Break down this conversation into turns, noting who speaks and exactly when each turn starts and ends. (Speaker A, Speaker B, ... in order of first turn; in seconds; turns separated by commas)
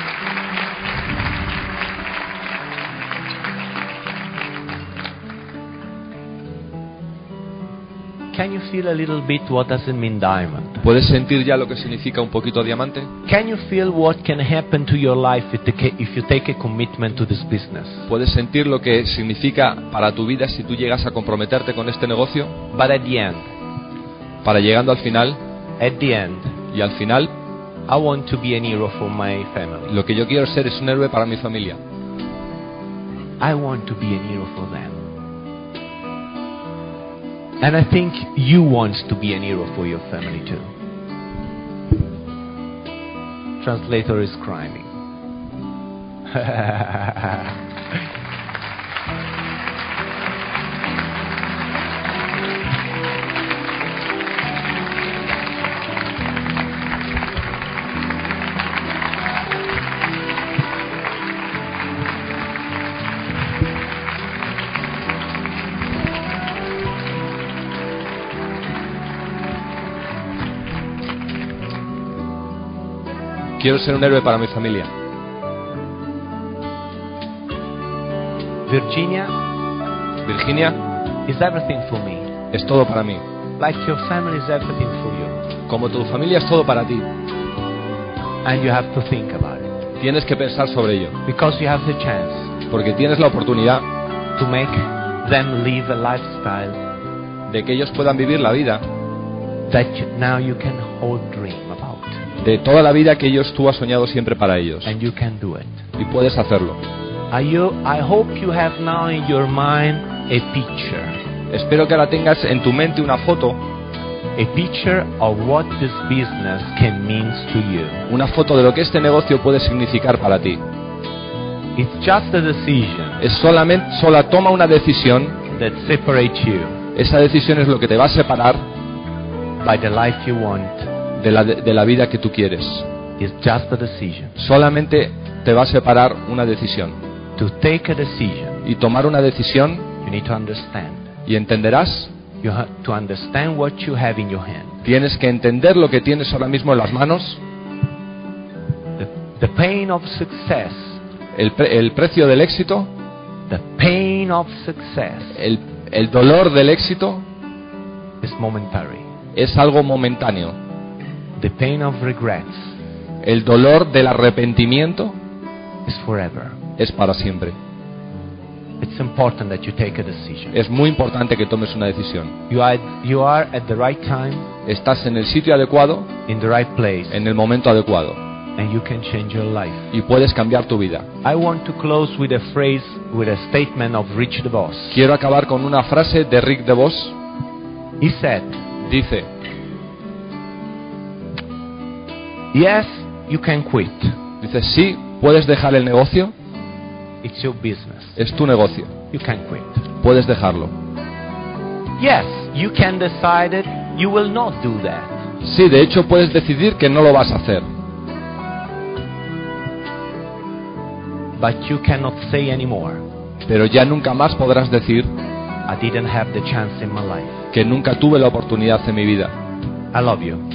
Speaker A: 8.3-10.9, Speaker B: 10.8-13.1, Speaker A: 13.2-18.1, Speaker B: 18.1-22.6, Speaker A: 22.7-23.5, Speaker B: 24.4-25.4, Speaker A: 25.8-26.6, Speaker B: 26.7-27.3, Speaker A: 27.9-29.9, Speaker B: 29.9-31.8, Speaker A: 33.4-35.0, Speaker A: 37.6-40.7, Speaker A: 43.6-44.9, Speaker A: 46.3-47.5, Speaker B: 73.6-74.9, Speaker A: 78.7-79.3, Speaker B: 80.2-80.8, Speaker A: 81.3-82.3, Speaker B: 82.5-83.2, Speaker A: 83.6-85.4, Speaker B: 85.7-87.1, Speaker A: 88.4-89.7, Speaker B: 90.0-91.2, Speaker A: 91.2-92.5, Speaker B: 92.7-93.8, Speaker A: 94.4-96.8, Speaker B: 97.5-98.8, Speaker A: 99.7-102.2, Speaker B: 102.4-104.9, Speaker A: 104.8-105.8, Speaker B: 106.0-106.8, Speaker A: 107.3-111.2, Speaker B: 111.5-113.6, Speaker A: 114.4-118.0, Speaker B: 118.1-120.6, Speaker A: 121.8-123.2, Speaker B: 123.2-125.4, Speaker A: 125.5-126.8, Speaker B: 127.0-128.7, Speaker A: 129.6-130.9, Speaker B: 131.2-132.9, Speaker A: 133.2-134.4, Speaker B: 134.4-137.0, Speaker A: 137.4-138.6, Speaker B: 138.6-139.9, Speaker A: 140.0-141.1, Speaker B: 141.3-142.1, Speaker A: 142.4-144.8, Speaker B: 144.8-147.4, Speaker A: 149.0-151.0, Speaker B: 151.3-152.9, Speaker A: 153.5-155.4, Speaker B: 155.4-157.2, Speaker A: 158.2-159.1, Speaker B: 159.3-160.6, Speaker A: 161.4-162.7, Speaker B: 163.2-165.2, Speaker A: 165.9-166.6, Speaker B: 166.8-167.6, Speaker A: 168.8-170.6, Speaker B: 170.5-172.3, Speaker A: 172.5-174.5, Speaker B: 174.7-176.1, Speaker A: 176.3-177.2, Speaker B: 177.1-178.2, Speaker A: 178.6-179.9, Speaker B: 179.9-181.1, Speaker A: 181.2-185.0, Speaker B: 184.9-187.2, Speaker A: 188.0-188.6, Speaker B: 188.8-189.3, Speaker A: 192.5-194.2, Speaker B: 194.4-196.3, Speaker A: 197.2-198.2, Speaker B: 198.2-198.9, Speaker A: 199.1-199.8, Speaker B: 200.0-200.8, Speaker A: 202.0-205.2, Speaker B: 205.4-207.7, Speaker A: 211.4-213.1, Speaker B: 213.5-215.1, Speaker A: 215.7-217.4, Speaker B: 217.5-219.3, Speaker A: 219.9-220.4